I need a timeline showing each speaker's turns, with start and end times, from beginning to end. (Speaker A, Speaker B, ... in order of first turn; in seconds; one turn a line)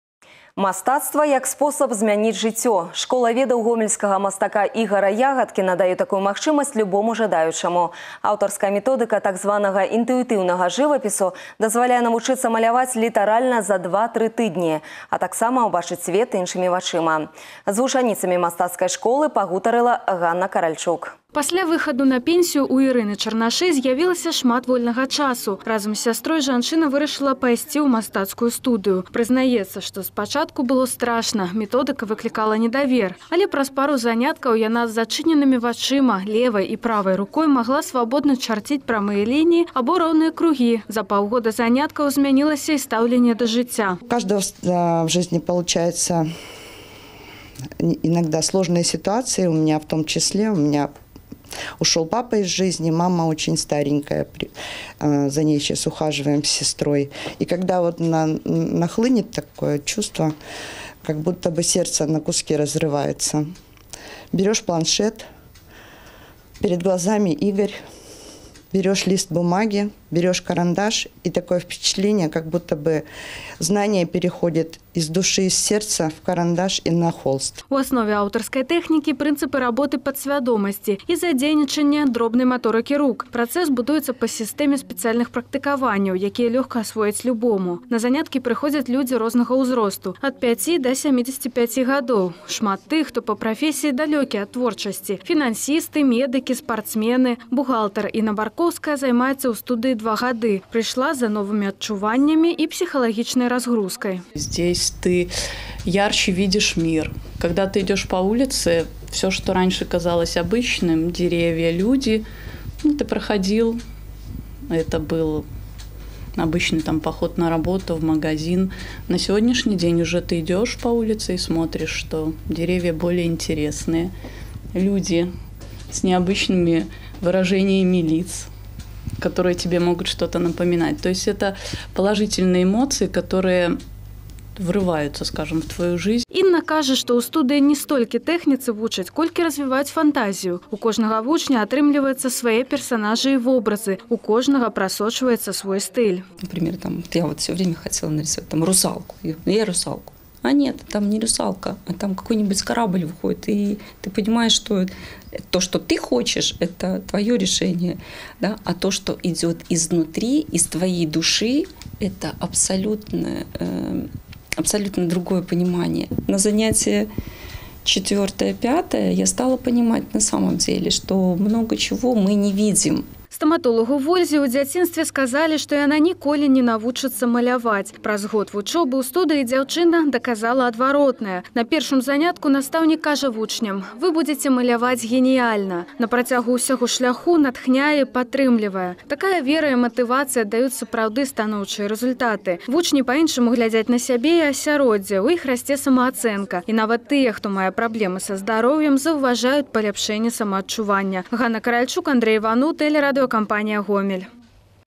Speaker A: 0.6-21.1
Speaker B: 21.3-44.0
Speaker C: 48.3-50.9
Speaker C: 51.9-54.4
Speaker C: 55.0-60.3
Speaker C: 61.1-63.5
Speaker C: 64.4-65.2
Speaker C: 66.7-67.7
Speaker C: 68.9-69.3
Speaker C: 70.5-70.8
Speaker C: 71.7-72.2
Speaker B: 77.7-104.2
Speaker D: 104.4-105.3
Speaker D: 105.8-112.2
Speaker D: 112.8-113.8
Speaker D: 114.7-115.5
Speaker D: 116.4-124.1
Speaker D: 124.7-125.3
Speaker D: 125.9-128.5
Speaker D: 129.2-133.8
Speaker D: 134.6-136.2
Speaker B: 136.3-146.2
Speaker E: 146.5-154.9
Speaker E: 155.5-164.0
Speaker E: 164.7-167.1
Speaker E: 167.8-173.0
Speaker B: 173.3-204.3